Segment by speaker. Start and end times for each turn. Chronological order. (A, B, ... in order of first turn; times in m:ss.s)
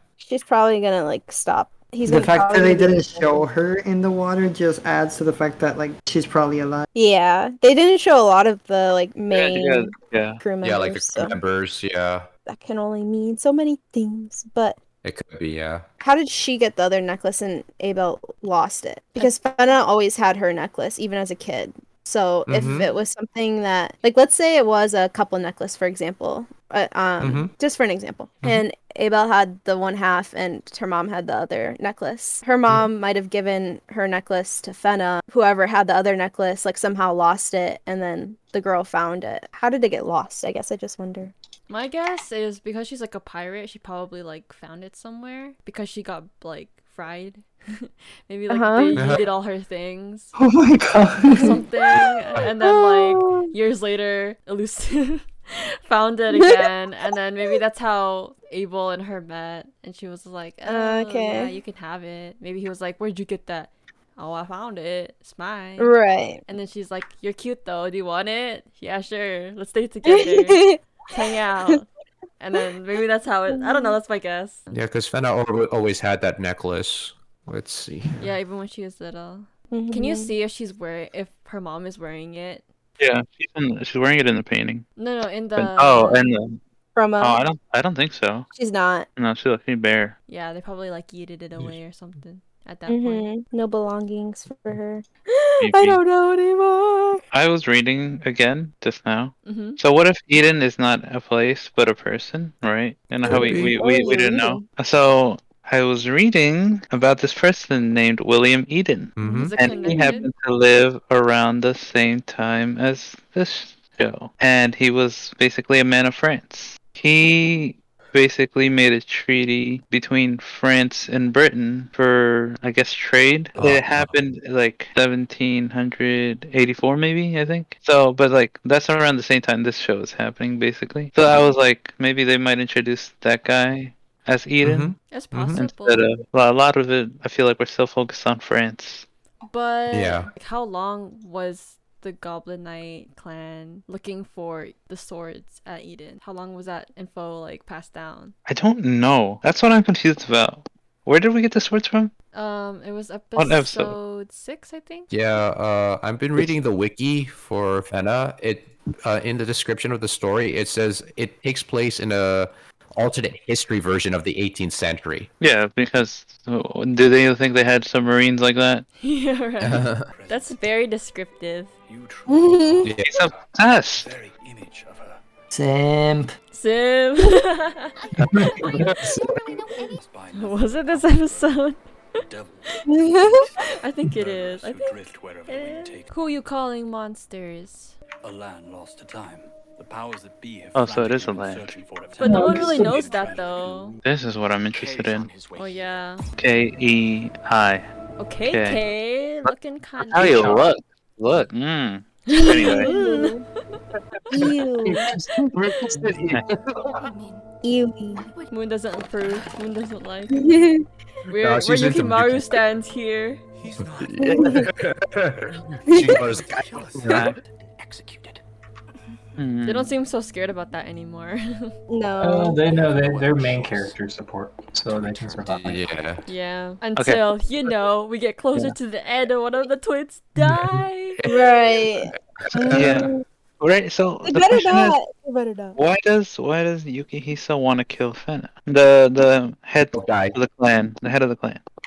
0:00.2-0:03.4 A
0:02.0-0:06.8 B
0:06.9-0:11.3 A
0:09.3-0:10.4 C
0:10.6-0:12.3 D
0:12.5-0:14.8 A
0:15.0-0:15.8 D
0:16.0-0:41.3 A
0:22.5-0:22.9 D
0:27.2-0:27.5 D
0:41.7-0:50.3 E
0:48.5-0:49.1 A
0:48.9-0:49.3 D
0:50.4-0:51.6 B
0:51.3-1:05.9 E
0:52.6-0:53.5 A
1:00.6-1:01.5 A
1:05.8-1:06.4 A
1:06.5-1:11.8 E
1:10.0-1:10.8 A
1:12.4-1:14.7 E
1:13.5-1:13.9 A
1:14.7-1:18.1 D
1:18.2-1:22.6 E
1:19.7-1:20.3 A
1:23.0-1:24.8 C
1:25.0-1:26.2 E
1:25.6-1:26.6 C
1:27.0-1:27.4 A
1:27.2-1:28.5 C
1:28.5-1:29.1 A
1:29.2-1:30.1 C
1:30.3-1:33.3 E
1:32.9-1:37.2 A
1:35.6-1:36.0 C
1:37.3-2:14.9 C
1:39.4-1:39.8 E
1:43.2-1:44.6 A
1:43.3-1:43.8 D
1:49.2-1:49.5 D
1:49.2-1:50.3 E
2:03.6-2:04.1 D
2:14.6-2:15.6 D
2:15.0-2:16.0 E
2:15.6-2:19.0 C
2:19.5-2:28.3 E
2:19.9-2:20.3 D
2:28.5-2:32.1 C
2:32.3-2:35.1 E
2:33.4-2:33.9 C
2:35.1-2:45.3 D
2:45.4-2:48.8 C
2:49.0-2:51.7 E
2:49.6-2:50.6 F
2:49.6-2:50.1 D
2:51.9-2:53.0 F
2:52.3-2:52.9 A
2:52.8-2:53.3 D
2:53.0-2:54.1 C
2:54.0-2:55.2 F
2:55.5-2:56.3 B
2:56.5-2:58.9 E
2:58.2-2:59.4 D
2:58.2-3:01.6 F
3:00.3-3:01.8 E
3:02.2-3:06.1 F
3:02.9-3:03.4 A
3:03.6-3:04.9 E
3:05.4-3:08.0 E
3:08.2-3:14.0 F
3:10.7-3:11.8 C
3:12.2-3:14.0 E
3:12.2-3:13.0 G
3:14.0-3:15.3 C
3:14.7-3:16.0 F
3:15.5-3:16.2 E
3:16.4-3:17.9 C
3:18.2-3:20.7 E
3:18.4-3:18.8 C
3:20.1-3:22.9 C
3:22.3-3:23.8 E
3:22.6-3:23.4 A
3:24.3-3:25.1 A
3:25.0-3:27.1 D
3:27.6-3:28.2 A
3:28.5-3:30.6 E
3:30.3-3:30.8 A
3:31.3-3:33.4 E
3:31.4-3:32.6 D
3:33.5-3:38.4 F
3:34.1-3:37.3 D
3:34.3-3:34.7 A
3:35.8-3:36.2 A
3:37.0-3:37.4 C
3:39.4-3:39.9 C
3:39.6-3:41.7 E
3:41.9-3:42.6 A
3:42.2-3:45.8 G
3:42.6-3:44.0 F
3:44.8-3:45.6 F
3:45.4-3:46.2 D
3:46.2-3:51.2 E
3:51.2-3:51.8 D
3:51.2-3:53.2 A
3:52.4-3:53.1 D
3:52.7-3:55.0 C
3:54.2-3:55.8 A
3:55.8-4:01.6 C
3:59.9-4:00.4 D